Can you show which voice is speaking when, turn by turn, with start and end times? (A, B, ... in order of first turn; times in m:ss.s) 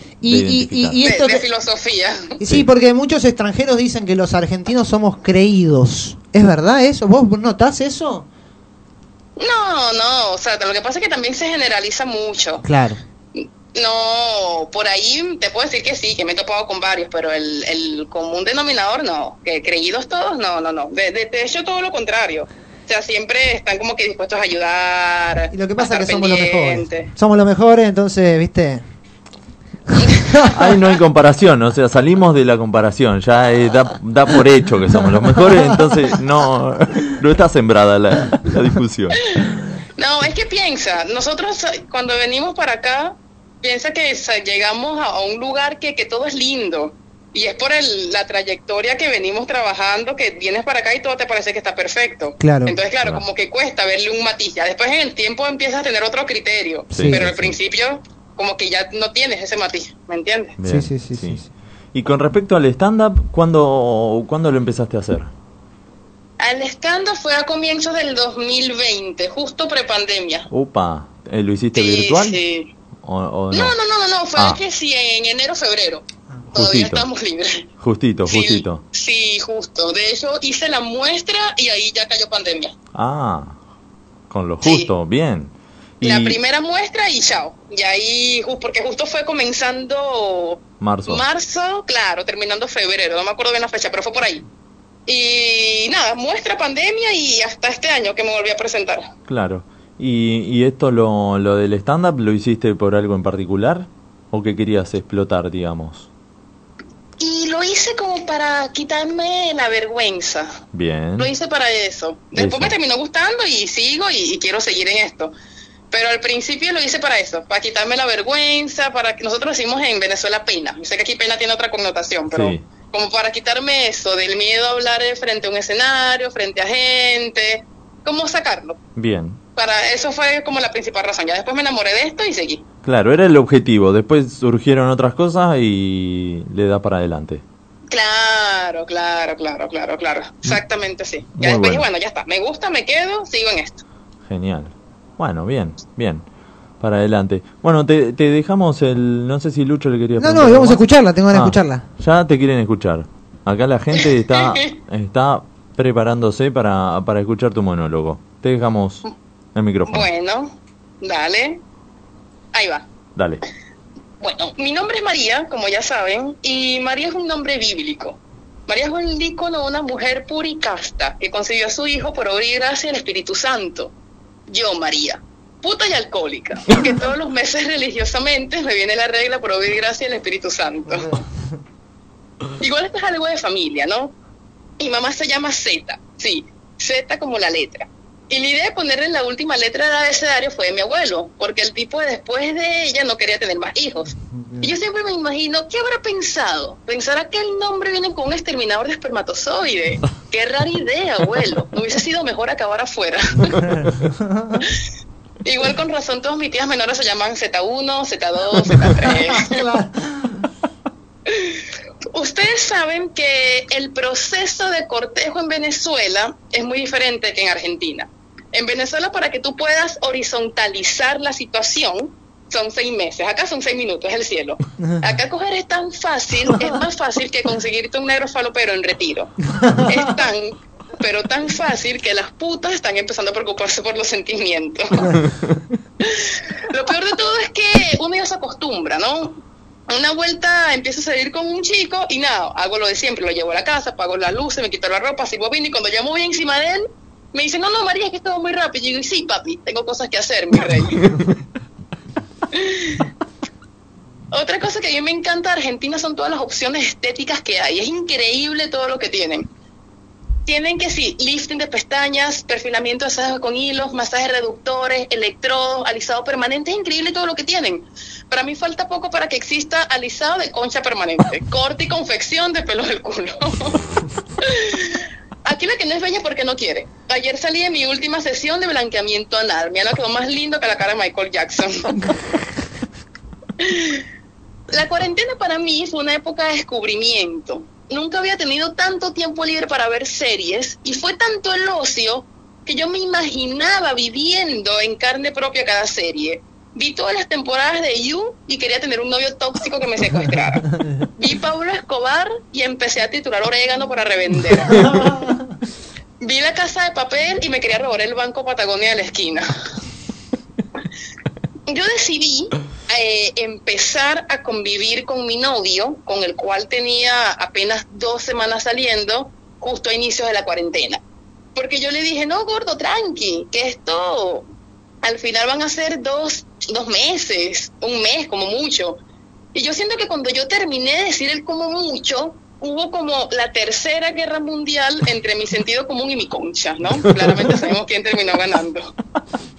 0:00.2-0:01.4 A
0:00.3-0:01.0 B
0:01.0-0:02.4 C
0:02.4-0:08.3 A
0:09.4-0:12.6 C
0:12.6-0:13.0 A
0:13.4-0:27.1 C
0:25.5-0:28.8 A
0:30.1-0:30.6 A
0:30.4-0:39.2 B
0:35.5-0:36.0 A
0:40.0-1:00.6 C
0:52.4-0:52.8 A
0:53.0-0:53.3 B
0:56.9-0:57.3 A
0:56.9-0:57.6 B
1:00.6-1:05.3 B
1:00.6-1:01.5 A
1:06.4-1:10.5 C
1:10.5-1:12.4 B
1:11.7-1:12.7 C
1:13.0-1:13.8 B
1:13.5-1:16.0 C
1:14.4-1:14.6 B
1:16.5-1:17.1 B
1:16.5-1:17.7 C
1:17.8-1:18.8 B
1:18.3-1:22.7 C
1:22.9-1:23.6 B
1:24.3-1:26.4 B
1:24.6-1:24.9 C
1:26.0-1:34.4 C
1:30.8-1:31.2 B
1:35.1-1:39.1 C
1:39.3-1:46.1 B
1:47.2-1:50.5 C
1:50.7-1:51.3 B
1:51.2-1:55.3 C
1:52.3-1:52.8 B
1:55.9-2:08.8 C
2:02.3-2:02.6 B
2:09.0-2:09.4 B
2:09.6-2:12.6 C
2:12.8-2:17.4 B
2:17.9-2:23.8 C
2:21.4-2:21.9 B
2:24.3-2:26.2 B
2:26.8-2:39.0 B
2:30.2-2:31.8 A
2:34.0-2:34.7 C
2:39.6-2:40.1 B
2:39.9-2:41.6 C
2:42.5-2:42.9 C
2:43.2-2:43.4 B
2:44.2-2:53.9 C
2:54.5-3:01.1 C
3:02.6-3:04.1 C
3:04.8-3:23.7 C
3:14.3-3:14.7 A
3:23.8-3:24.6 A
3:25.4-3:29.6 C
3:29.0-3:30.4 A
3:31.3-3:31.6 C
3:32.1-3:49.3 C
3:49.9-3:55.1 C
3:56.0-3:59.4 C
3:59.9-4:11.0 C
4:12.5-4:13.0 C
4:14.3-4:19.5 C
4:20.5-4:33.8 C
4:34.4-4:42.0 C
4:43.6-4:44.0 C
4:44.7-5:00.7 C
5:01.2-5:04.9 C
5:06.2-5:09.5 C
5:11.7-5:21.0 C
5:21.6-5:24.5 C
5:25.0-5:29.0 C
5:29.5-5:38.9 C